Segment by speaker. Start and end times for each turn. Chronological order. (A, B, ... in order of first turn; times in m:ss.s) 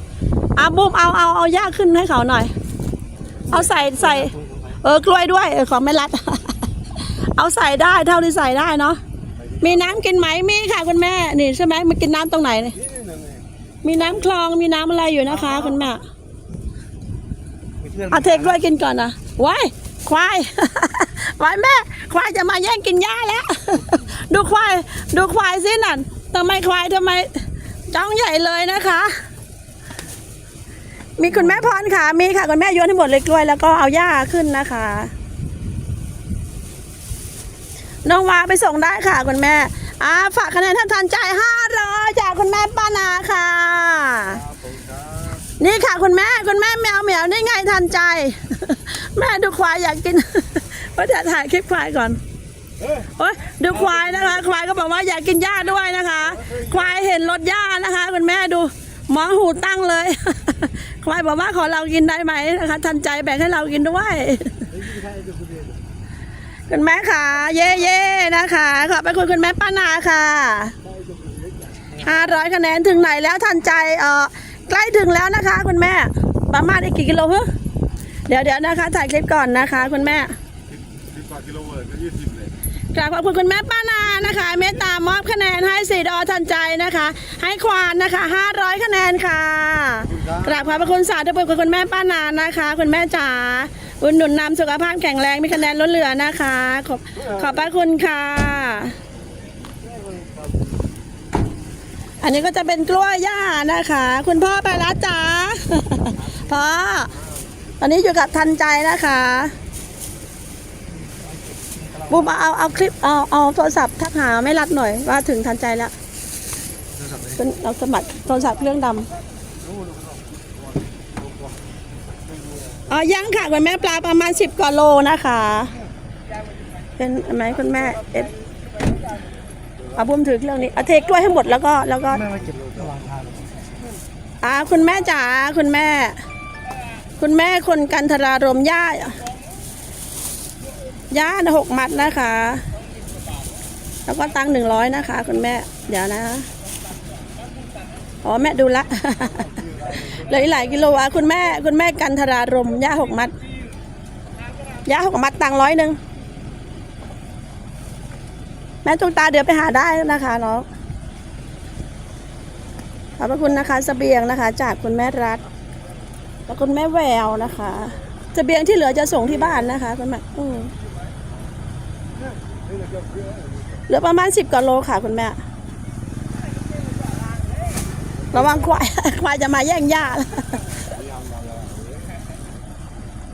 0:00.6-0:02.5 A
0:03.5-0:09.0 A
0:04.2-0:04.6 B
0:09.6-0:12.8 A
0:12.8-0:13.4 C
0:13.8-0:16.0 A
0:17.8-0:18.6 B
0:18.1-0:29.1 A
0:31.2-0:35.1 A
0:38.0-0:44.4 A
0:44.5-0:45.4 C
0:45.6-0:52.2 A
0:53.1-1:04.7 A
1:04.8-1:05.8 C
1:06.7-1:10.8 A
1:10.9-1:11.9 C
1:12.0-1:17.5 A
1:18.3-1:20.3 A
1:21.0-1:22.5 C
1:22.9-1:39.0 A
1:39.8-1:40.7 C
1:42.2-1:47.1 A
1:47.8-1:49.6 A
1:52.1-1:55.9 A
1:57.4-1:59.1 A
1:59.7-2:00.2 C
2:02.9-2:05.7 A
2:07.0-2:08.3 A
2:10.0-2:12.3 A
2:12.3-2:13.3 B
2:12.3-2:13.1 C
2:14.4-2:16.2 A
2:17.2-2:19.2 A
2:21.1-2:22.6 A
2:24.1-2:26.5 A
2:28.2-2:33.4 A
2:29.4-2:30.0 C
2:34.8-2:36.0 A
2:38.8-2:40.7 A
2:43.2-2:45.4 A
2:46.5-2:50.7 A
2:52.5-2:53.5 C
2:53.9-2:55.4 A
2:58.3-3:00.7 A
3:01.0-3:01.9 C